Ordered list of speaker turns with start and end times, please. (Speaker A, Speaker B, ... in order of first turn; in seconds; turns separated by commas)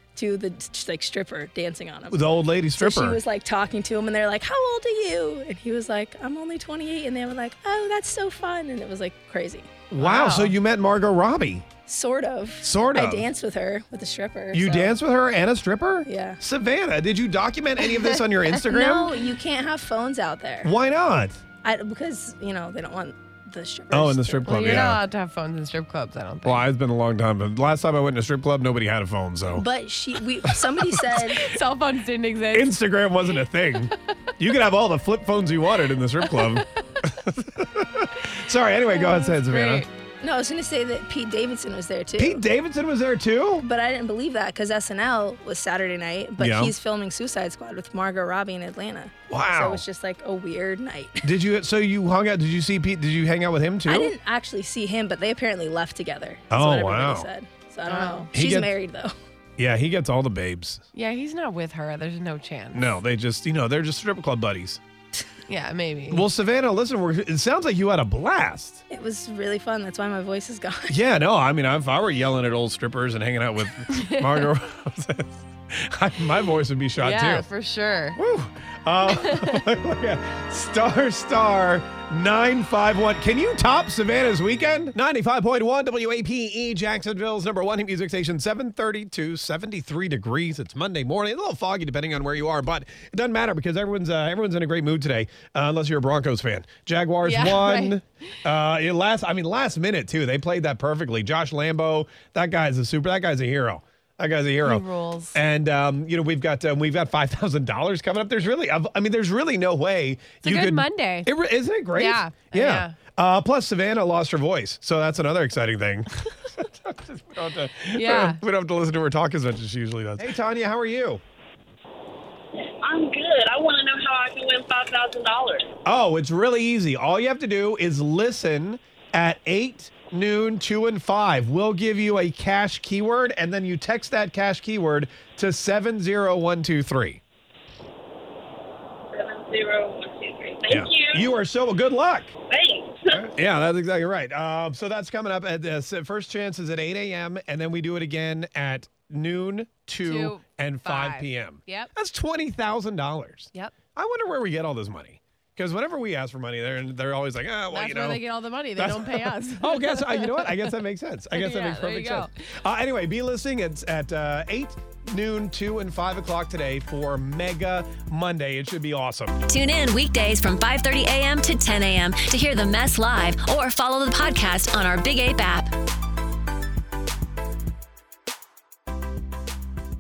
Speaker A: 0.2-9.8, Speaker B: 2.1-3.2, Speaker B: 9.9-11.7, Speaker C: 10.0-10.6, Speaker A: 11.9-15.0, Speaker B: 12.6-13.3, Speaker B: 14.5-19.2, Speaker A: 16.1-16.4, Speaker A: 18.7-20.7, Speaker B: 20.6-21.4, Speaker A: 21.6-24.6, Speaker B: 23.9-25.0, Speaker C: 24.5-26.7, Speaker B: 26.4-29.6, Speaker A: 29.5-31.4, Speaker B: 30.4-31.4, Speaker C: 31.3-32.8, Speaker B: 32.5-39.9, Speaker C: 38.9-39.9, Speaker A: 40.2-42.4, Speaker B: 42.2-43.6, Speaker A: 43.6-51.2, Speaker B: 46.4-46.7, Speaker B: 49.3-49.8, Speaker B: 51.2-54.1, Speaker A: 53.9-59.1, Speaker B: 56.5-57.3, Speaker C: 57.9-58.3, Speaker B: 58.3-58.7, Speaker B: 59.6-60.8, Speaker C: 61.0-63.0, Speaker B: 62.7-64.8, Speaker C: 65.5-66.2, Speaker B: 66.1-68.8, Speaker A: 68.9-70.9, Speaker B: 70.9-77.5, Speaker C: 77.0-78.2, Speaker B: 78.2-121.2, Speaker C: 79.1-79.6, Speaker C: 97.2-98.0, Speaker C: 104.6-105.4, Speaker C: 110.4-111.3, Speaker C: 112.0-113.0, Speaker C: 117.9-118.4, Speaker D: 122.7-125.7, Speaker B: 125.8-137.2, Speaker D: 139.1-141.2, Speaker B: 140.7-142.3, Speaker D: 142.5-143.2, Speaker B: 143.1-158.2, Speaker C: 150.0-151.9, Speaker C: 157.7-160.7, Speaker B: 158.8-169.4, Speaker C: 161.3-162.3, Speaker E: 169.5-175.7